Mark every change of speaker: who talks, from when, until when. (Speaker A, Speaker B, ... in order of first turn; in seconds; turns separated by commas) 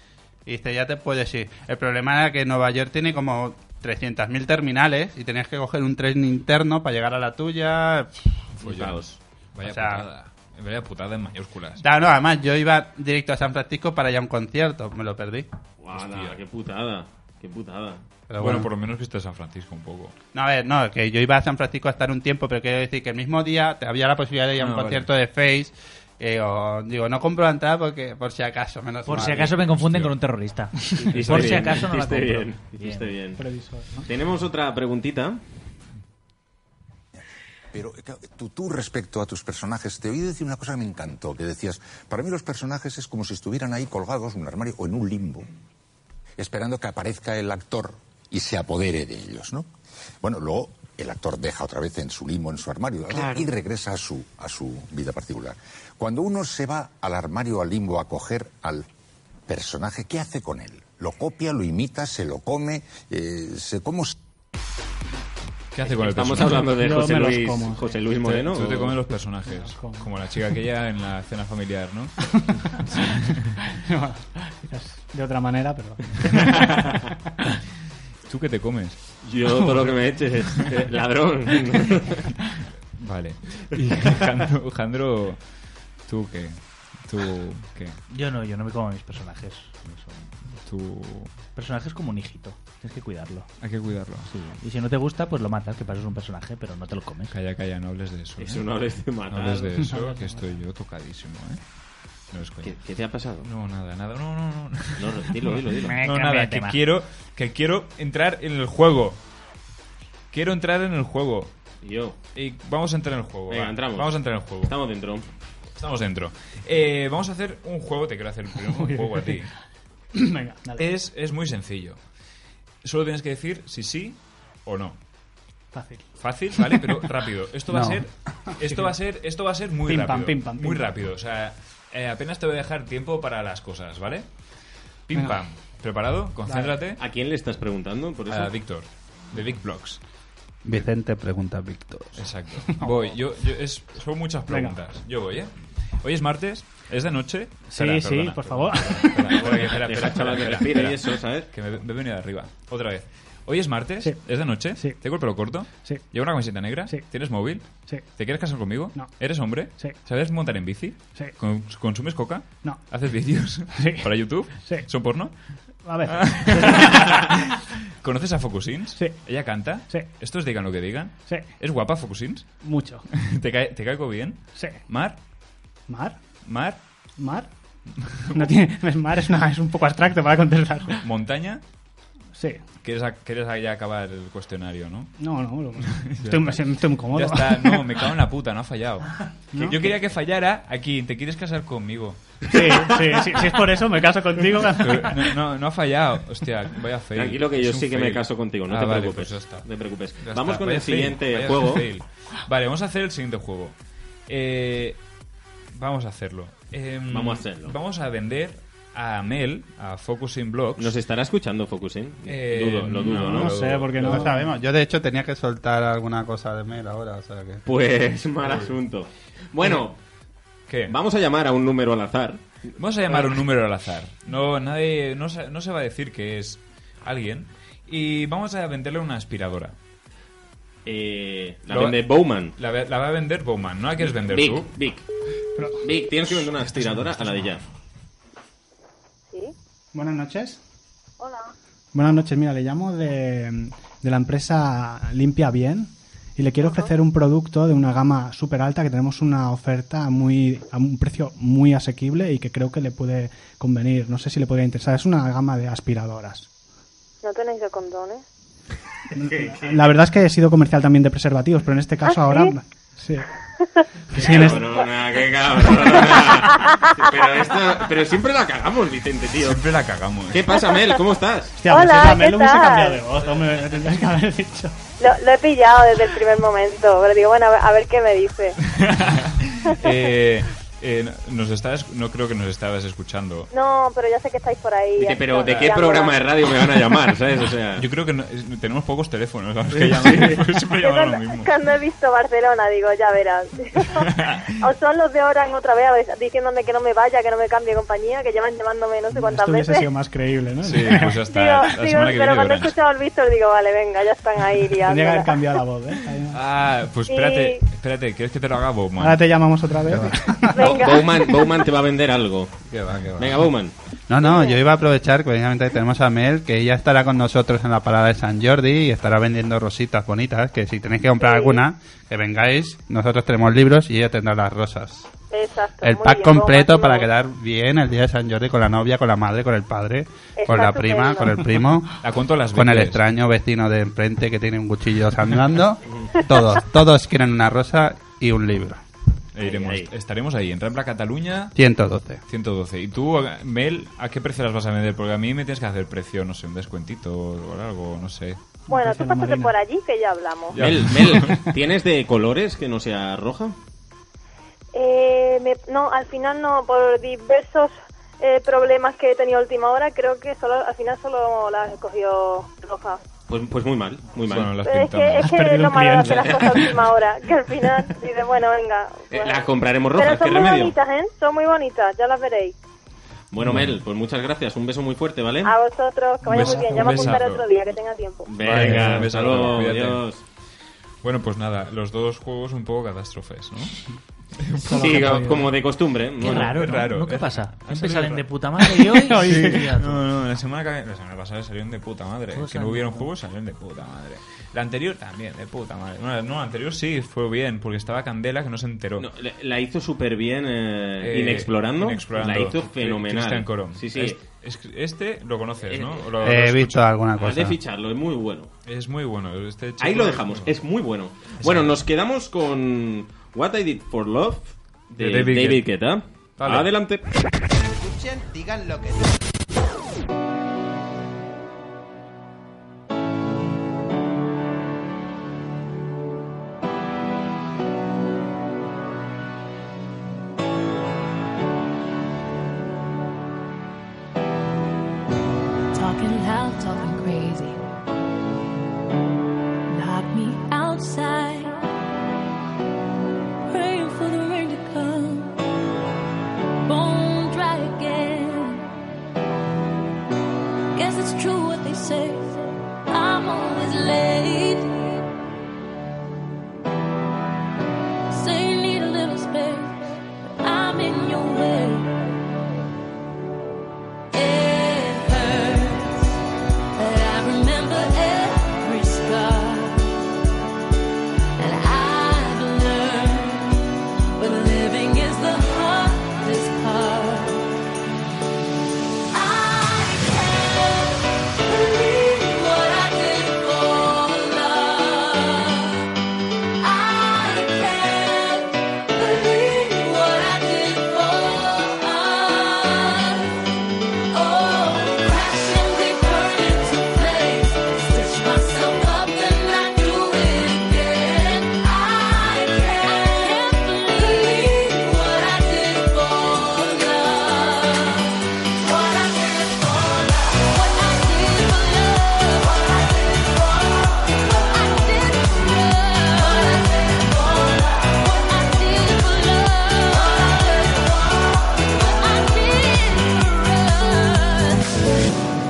Speaker A: 0.5-8.1, Speaker B: 8.6-11.8, Speaker C: 8.6-9.0, Speaker A: 9.6-10.1, Speaker A: 11.8-15.4, Speaker C: 15.8-18.0, Speaker B: 15.9-16.4, Speaker A: 18.3-18.7, Speaker B: 18.4-20.1, Speaker A: 20.3-29.6, Speaker B: 24.6-25.1, Speaker D: 29.1-33.1, Speaker B: 29.7-30.1, Speaker C: 31.1-33.4, Speaker B: 31.2-31.6, Speaker E: 33.4-34.1, Speaker C: 34.0-35.4, Speaker F: 37.7-45.5, Speaker F: 46.4-49.7, Speaker F: 50.2-58.9, Speaker F: 59.5-64.2, Speaker B: 65.7-66.8, Speaker C: 65.8-69.0, Speaker E: 66.8-67.9, Speaker B: 68.2-72.1, Speaker E: 69.5-70.1, Speaker B: 72.9-73.5, Speaker E: 73.7-76.9, Speaker B: 78.2-79.0, Speaker C: 79.2-82.2, Speaker B: 83.0-88.0, Speaker D: 88.1-90.3, Speaker B: 90.6-91.3, Speaker D: 91.5-93.5, Speaker B: 93.6-94.5, Speaker D: 94.2-97.3, Speaker B: 97.3-98.6, Speaker C: 98.4-99.7, Speaker B: 99.3-101.6, Speaker E: 99.8-100.3, Speaker B: 102.2-102.8, Speaker C: 102.6-103.5, Speaker B: 103.4-109.2, Speaker C: 105.0-106.0, Speaker D: 105.8-106.8, Speaker B: 110.3-111.5, Speaker C: 111.8-112.2, Speaker B: 112.3-114.7, Speaker C: 113.5-115.2, Speaker B: 115.8-119.5, Speaker E: 118.7-119.4, Speaker E: 120.2-120.9, Speaker B: 120.8-122.0, Speaker B: 122.8-125.0, Speaker E: 125.7-126.8, Speaker B: 126.2-137.0, Speaker A: 127.7-128.0, Speaker E: 128.6-128.9, Speaker E: 129.8-130.9, Speaker E: 135.1-135.4, Speaker E: 136.4-136.7, Speaker C: 137.0-138.5, Speaker B: 138.3-140.0, Speaker A: 140.6-142.2, Speaker B: 142.1-175.2, Speaker E: 142.7-143.0, Speaker E: 144.5-144.8, Speaker E: 147.7-149.4, Speaker C: 149.4-151.5, Speaker E: 154.0-155.0, Speaker E: 155.7-156.1, Speaker E: 157.8-158.1, Speaker E: 162.6-162.9, Speaker E: 163.7-164.9, Speaker E: 165.7-167.2, Speaker E: 168.9-169.4, Speaker E: 171.2-171.6, Speaker E: 172.6-173.1, Speaker E: 174.5-174.8, Speaker E: 175.9-176.3, Speaker B: 176.4-176.8, Speaker E: 177.2-177.5, Speaker B: 177.9-178.5, Speaker E: 178.3-181.0, Speaker B: 181.0-181.6, Speaker E: 182.3-182.6, Speaker B: 182.8-185.1, Speaker E: 185.2-188.0, Speaker B: 185.8-192.4, Speaker E: 189.5-189.9, Speaker E: 192.5-195.3, Speaker B: 194.4-199.7, Speaker C: 197.1-201.9, Speaker B: 200.2-203.7, Speaker B: 204.3-205.0, Speaker B: 205.7-210.9, Speaker C: 207.1-207.8, Speaker C: 210.8-213.5, Speaker B: 212.2-214.3, Speaker E: 213.1-214.4, Speaker A: 214.0-217.6, Speaker C: 217.7-219.9, Speaker B: 218.4-218.7, Speaker B: 220.7-220.9, Speaker C: 220.9-223.2, Speaker B: 222.8-229.7, Speaker C: 230.8-232.5, Speaker B: 231.7-234.7, Speaker C: 234.3-235.0, Speaker E: 235.6-235.8, Speaker C: 235.8-237.6, Speaker E: 239.9-240.6, Speaker G: 241.2-241.5, Speaker E: 241.9-256.5, Speaker G: 246.6-246.9, Speaker G: 257.2-258.2, Speaker E: 259.1-263.3, Speaker C: 259.2-259.8, Speaker E: 264.1-264.7, Speaker C: 264.1-269.6, Speaker G: 266.6-266.9, Speaker B: 269.4-270.6, Speaker C: 270.3-271.6, Speaker E: 271.6-274.8, Speaker G: 271.7-273.0, Speaker G: 275.0-278.6, Speaker B: 278.6-283.5, Speaker G: 283.5-286.2, Speaker C: 285.0-287.8, Speaker B: 287.8-291.5, Speaker C: 289.7-290.4, Speaker G: 290.8-294.0, Speaker B: 293.9-294.7, Speaker G: 294.6-299.9, Speaker E: 299.1-301.2, Speaker B: 300.6-302.8, Speaker G: 301.3-305.3, Speaker E: 304.8-306.4, Speaker B: 306.3-309.3, Speaker G: 307.1-307.6, Speaker E: 309.0-310.6, Speaker A: 309.9-310.2, Speaker G: 310.6-311.0, Speaker C: 310.6-312.6, Speaker A: 312.7-313.3, Speaker C: 313.2-313.7, Speaker A: 314.1-325.1, Speaker G: 314.3-314.6, Speaker G: 321.2-321.6, Speaker G: 325.3-327.1, Speaker A: 325.8-331.9, Speaker G: 330.4-331.4, Speaker B: 332.0-333.0, Speaker A: 332.5-338.8, Speaker C: 335.9-336.1, Speaker B: 339.3-341.5, Speaker C: 339.4-339.9, Speaker A: 341.5-342.2, Speaker B: 342.3-348.4, Speaker E: 348.7-349.5, Speaker G: 348.7-350.6, Speaker B: 350.5-351.5, Speaker C: 350.6-353.6, Speaker G: 354.7-363.0, Speaker C: 363.3-364.5, Speaker B: 364.2-365.4, Speaker G: 364.6-369.4, Speaker E: 365.2-366.7, Speaker C: 369.1-370.7, Speaker G: 370.0-372.5, Speaker C: 373.3-375.5, Speaker B: 373.4-373.8, Speaker G: 375.4-378.3, Speaker B: 376.2-377.5, Speaker E: 376.2-377.2, Speaker C: 378.3-380.2, Speaker B: 378.3-380.0, Speaker E: 378.6-379.0, Speaker B: 381.0-383.8, Speaker B: 384.4-385.3, Speaker E: 384.6-385.5, Speaker C: 384.8-386.6, Speaker B: 386.2-388.3, Speaker D: 386.2-389.9, Speaker E: 388.9-389.8, Speaker B: 389.2-399.1, Speaker D: 392.3-393.1, Speaker C: 399.0-404.2, Speaker B: 401.0-406.8, Speaker C: 405.6-406.1, Speaker A: 406.2-407.6, Speaker C: 407.2-408.5, Speaker B: 408.6-410.6, Speaker C: 409.8-417.0, Speaker B: 411.4-411.8, Speaker B: 415.0-415.6, Speaker B: 416.4-416.7, Speaker A: 418.3-418.6, Speaker H: 435.7-437.6, Speaker H: 439.7-441.5, Speaker H: 443.5-445.3, Speaker H: 446.6-448.6, Speaker H: 450.7-452.4, Speaker H: 452.9-455.0, Speaker H: 458.1-461.9, Speaker H: 464.1-466.2, Speaker H: 466.8-469.9, Speaker H: 471.4-477.5, Speaker H: 479.1-485.9, Speaker H: 486.6-493.5, Speaker H: 494.1-524.9